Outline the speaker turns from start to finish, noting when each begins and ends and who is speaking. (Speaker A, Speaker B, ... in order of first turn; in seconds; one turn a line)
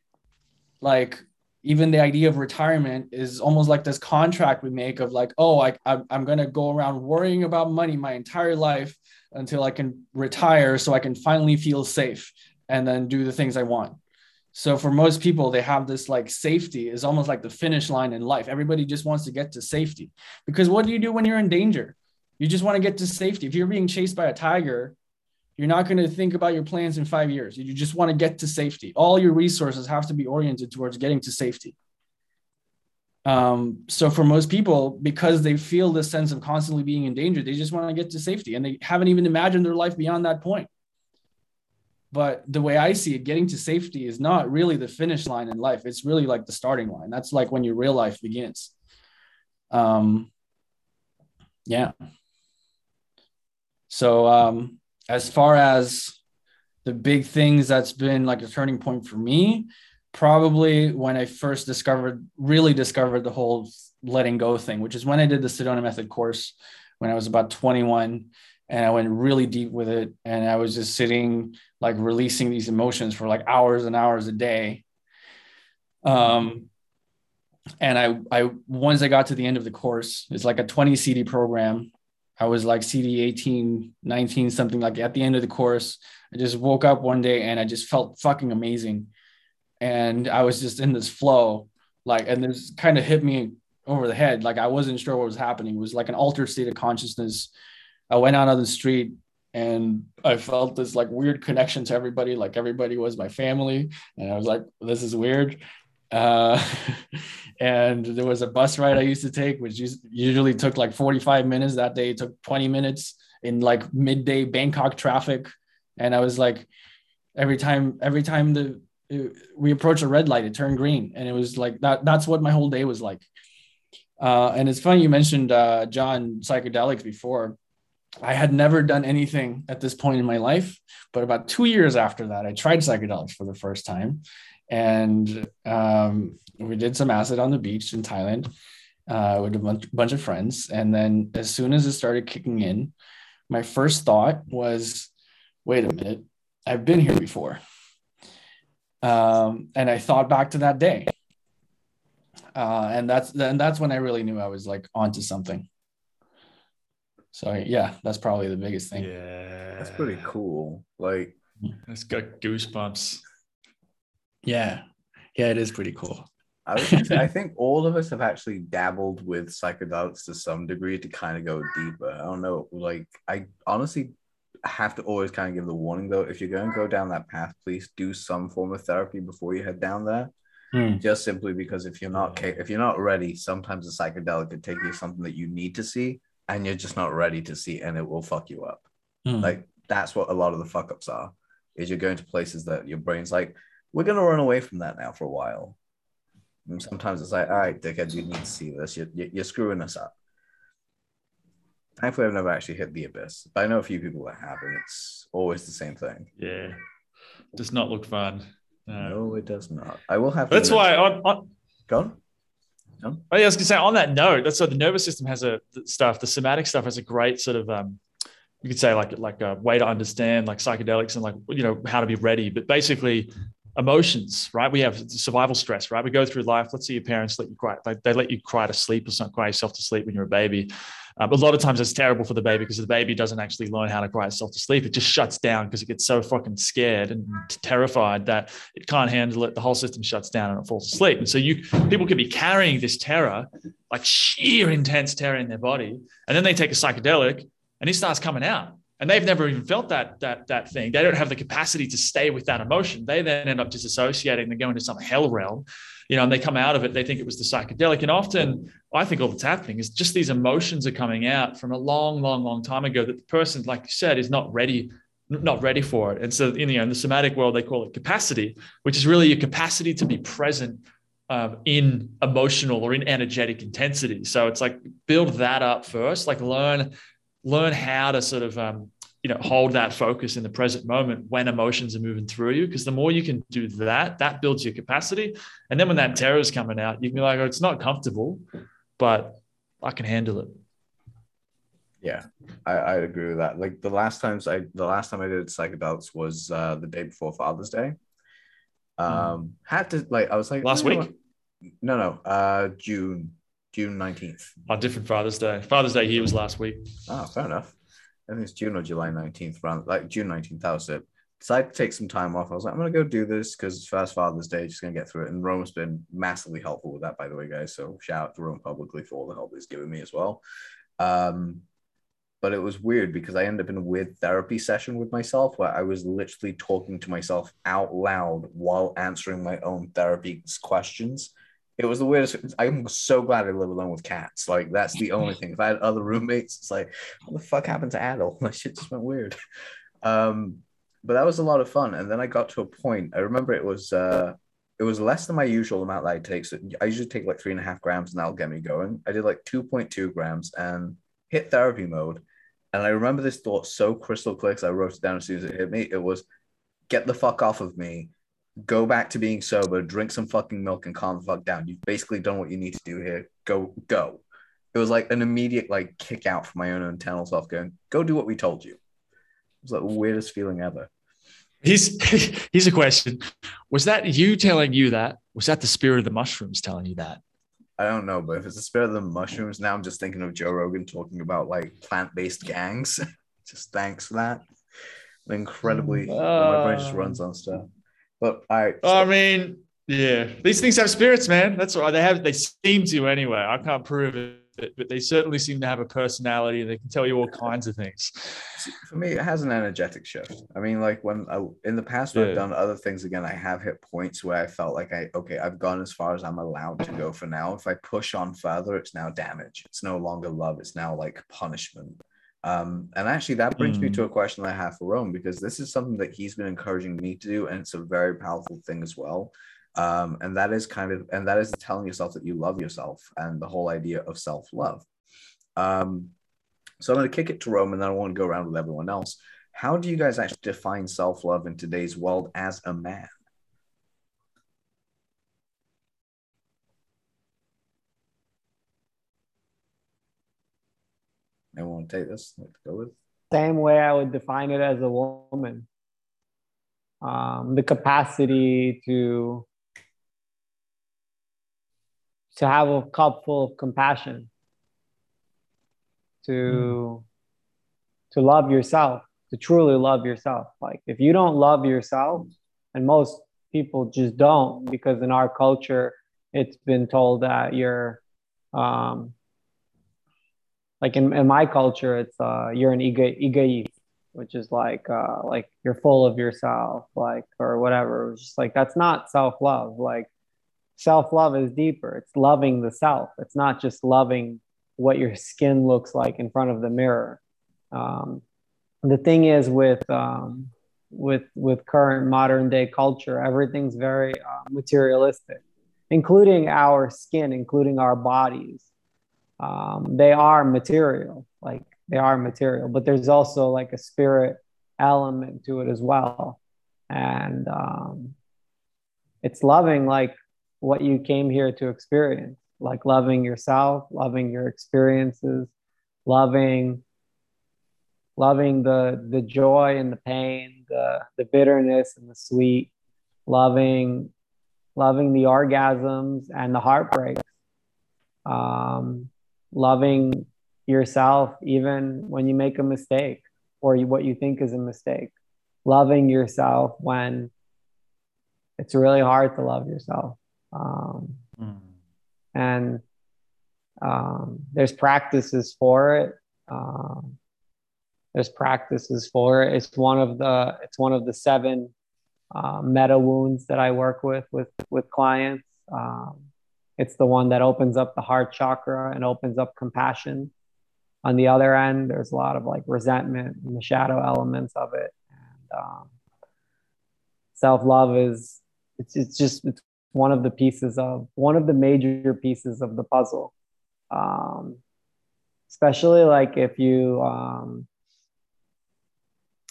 Speaker A: 0.8-14.0
Speaker A: 14.5-24.9
Speaker A: 25.6-31.8
Speaker A: 33.2-40.7
Speaker A: 42.1-48.7
Speaker A: 49.7-50.3
Speaker A: 51.7-51.9
Speaker A: 53.9-56.2
Speaker A: 56.8-74.8
Speaker A: 76.0-76.7
Speaker A: 77.8-89.1
Speaker A: 89.8-97.5
Speaker A: 98.1-116.7
Speaker A: 117.4-123.3
Speaker A: 124.2-127.6
Speaker A: 128.2-138.5
Speaker A: 139.1-142.9
Speaker A: 143.5-145.1
Speaker A: 145.7-147.6
Speaker A: 149.0-151.1
Speaker A: 152.6-155.7
Speaker A: 157.3-159.1
Speaker B: 158.9-160.2
Speaker C: 159.8-161.4
Speaker B: 161.9-163.2
Speaker A: 164.4-164.8
Speaker A: 165.3-166.3
Speaker C: 166.7-174.1
Speaker A: 166.8-167.2
Speaker C: 174.7-180.3
Speaker A: 180.7-181.0
Speaker C: 181.0-188.8
Speaker A: 189.3-189.6
Speaker C: 189.4-195.8
Speaker C: 196.7-200.1
Speaker C: 202.0-206.3
Speaker B: 206.4-206.8
Speaker B: 207.6-209.2
Speaker C: 209.0-210.9
Speaker B: 210.5-211.5
Speaker C: 211.9-212.2
Speaker B: 213.3-218.0
Speaker B: 218.6-276.9
Speaker B: 277.4-288.4
Speaker B: 289.0-290.6
Speaker C: 292.0-298.0
Speaker C: 299.0-301.1
Speaker B: 299.1-299.4
Speaker B: 300.6-301.1
Speaker C: 301.8-304.6
Speaker B: 304.7-306.9
Speaker C: 307.1-307.8
Speaker C: 308.3-320.4
Speaker C: 321.0-321.6
Speaker C: 322.4-339.4
Speaker C: 340.0-356.2
Speaker C: 356.9-364.2
Speaker C: 364.7-368.8
Speaker C: 369.6-370.9
Speaker B: 371.6-377.2
Speaker C: 377.8-384.4
Speaker C: 385.3-387.7
Speaker B: 385.7-387.2
Speaker C: 388.2-389.1
Speaker B: 388.8-398.5
Speaker C: 398.6-424.9
Speaker B: 402.1-402.4
Speaker B: 413.6-414.0
Speaker C: 425.6-426.1
Speaker C: 426.8-433.1
Speaker C: 441.6-442.9
Speaker D: 443.3-445.7
Speaker D: 447.0-449.4
Speaker D: 452.4-454.3
Speaker D: 456.2-457.0
Speaker D: 458.1-468.0
Speaker D: 468.5-469.1
Speaker D: 470.8-480.1
Speaker D: 480.8-487.2
Speaker D: 487.7-488.2
Speaker D: 488.8-498.6
Speaker D: 499.4-506.4
Speaker D: 506.9-508.1
Speaker D: 509.2-515.5
Speaker D: 516.1-516.8
Speaker D: 518.2-522.7
Speaker D: 523.3-524.1
Speaker D: 524.8-527.3
Speaker D: 528.3-535.1
Speaker D: 535.7-537.3
Speaker D: 538.6-541.2
Speaker D: 542.4-542.8
Speaker D: 543.8-547.1
Speaker D: 548.1-551.7
Speaker D: 552.3-556.2
Speaker D: 556.8-560.3
Speaker D: 561.0-565.9
Speaker D: 567.4-573.3
Speaker D: 573.9-574.6
Speaker D: 575.5-577.7